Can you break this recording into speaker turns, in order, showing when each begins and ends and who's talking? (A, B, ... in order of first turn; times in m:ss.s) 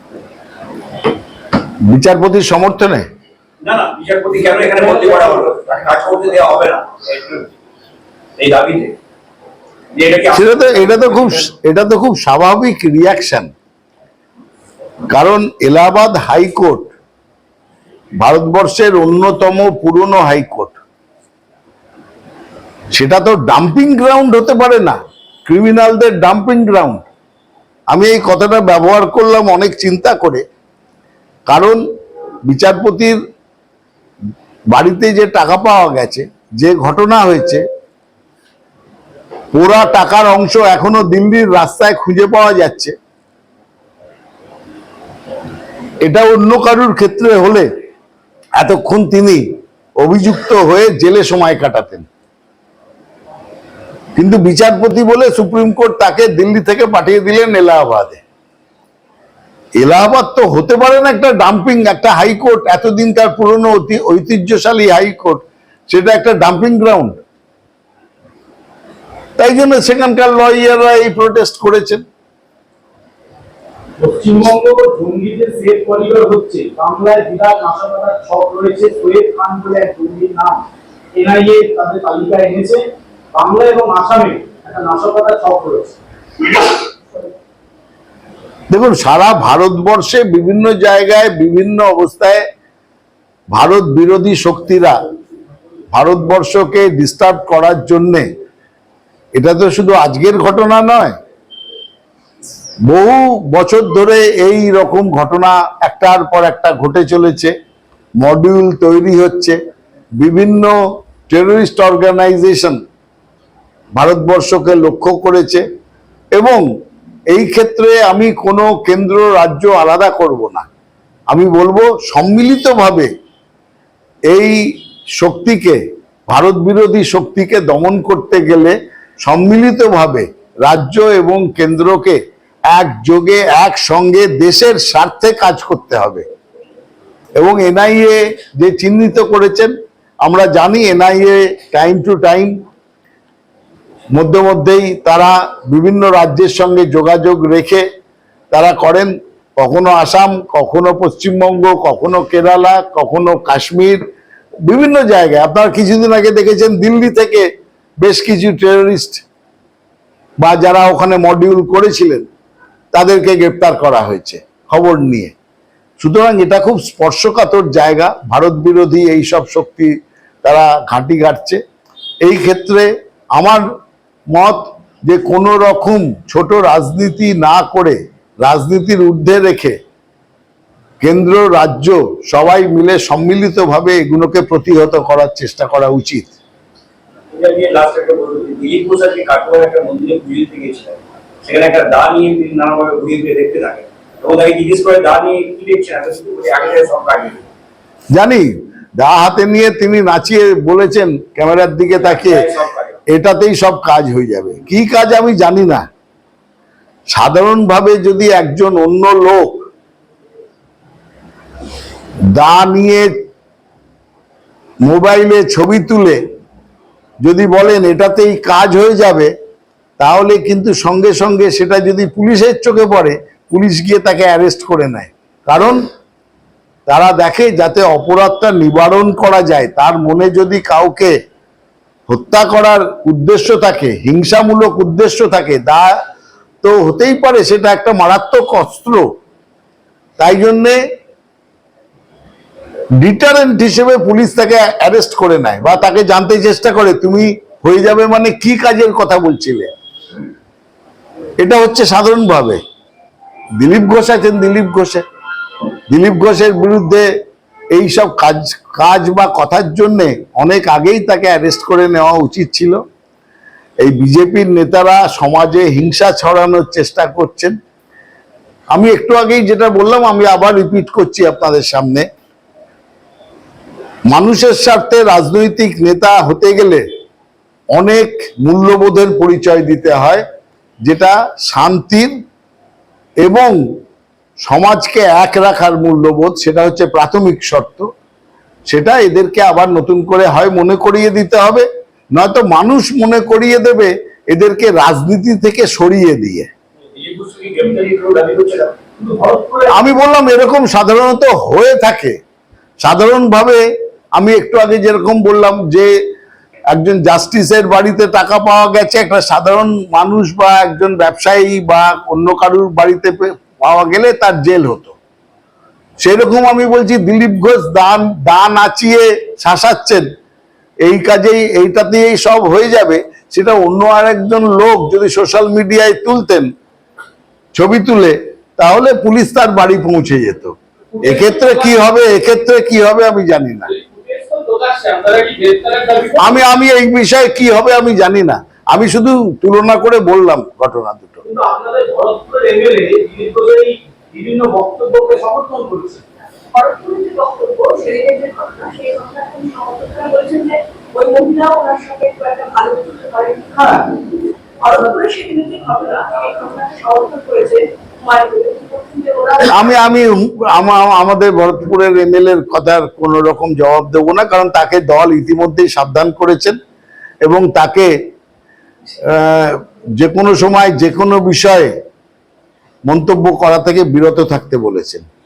0:01.8-0:03.0 A
0:03.6-0:07.5 B
0:08.4-0:09.0 B
0:09.9-0:11.4 B
0:10.3-0:13.5 A
0:15.1-0:16.9 A
0:18.2-0:20.8 A
0:22.9-0:27.1 A
0:27.9-0:30.4 A
0:31.5-0:31.8 A
0:32.5-0:33.2 A
0:34.7-0:37.6 A
0:39.5-0:42.9 A
0:46.0-0:47.7 A
0:48.6-0:49.4 A
0:50.0-0:52.1 A
0:54.2-0:58.2 A
0:59.8-1:07.2 A
1:09.4-1:12.0 A
1:14.0-1:20.6 C
1:21.1-1:26.6 C
1:28.7-1:32.4 A
1:33.5-1:35.0 A
1:35.9-1:38.3 A
1:39.4-1:41.2 A
1:42.9-1:47.5 A
1:48.2-1:49.6 A
1:50.2-1:50.8 A
1:51.3-1:52.8 A
1:54.0-1:55.6 A
1:56.4-1:56.6 A
1:57.3-2:00.7 A
2:01.3-2:03.1 A
2:04.3-2:04.6 A
2:05.2-2:16.2 A
2:17.4-2:19.7 A
2:20.2-2:22.5 A
2:24.1-2:27.8 A
2:28.5-2:34.0 A
2:34.6-2:37.5 A
2:38.0-2:39.2 A
2:40.4-2:42.3 A
2:42.9-2:45.3 A
2:46.0-2:49.9 A
2:50.4-2:51.6 A
2:52.2-2:53.6 A
2:54.3-2:59.8 A
3:01.0-3:06.3 A
3:07.3-3:17.5 B
3:18.1-3:22.4 A
3:21.9-3:23.0 B
3:23.1-3:25.9 A
3:27.1-3:29.6 A
3:32.3-3:33.1 A
3:34.8-3:36.2 A
3:37.2-3:39.3 A
3:40.0-3:45.8 A
3:46.9-3:51.1 A
3:52.1-3:55.9 A
3:56.6-3:59.1 A
4:00.2-4:00.8 A
4:03.0-4:09.7 A
4:11.4-4:12.6 A
4:13.6-4:15.0 A
4:15.9-4:17.1 A
4:17.7-4:22.8 A
4:23.8-4:27.6 A
4:28.7-4:32.1 A
4:34.1-4:36.8 A
4:37.7-4:40.2 A
4:40.8-4:42.1 A
4:43.2-4:43.6 A
4:44.4-4:47.9 A
4:48.7-4:56.5 A
4:57.0-4:58.8 B
4:59.0-4:59.7 C
4:59.7-5:02.2 A
5:02.8-5:03.6 A
5:04.2-5:05.9 A
5:06.7-5:15.0 A
5:16.0-5:20.1 A
5:20.8-5:26.5 A
5:27.5-5:33.7 A
5:31.0-5:31.6 C
5:33.8-5:36.2 C
5:36.2-5:41.2 A
5:41.2-5:46.0 C
5:46.5-5:54.1 D
5:54.6-5:59.8 D
5:59.4-6:06.6 A
6:07.2-6:07.9 A
6:09.1-6:11.7 A
6:12.9-6:15.0 A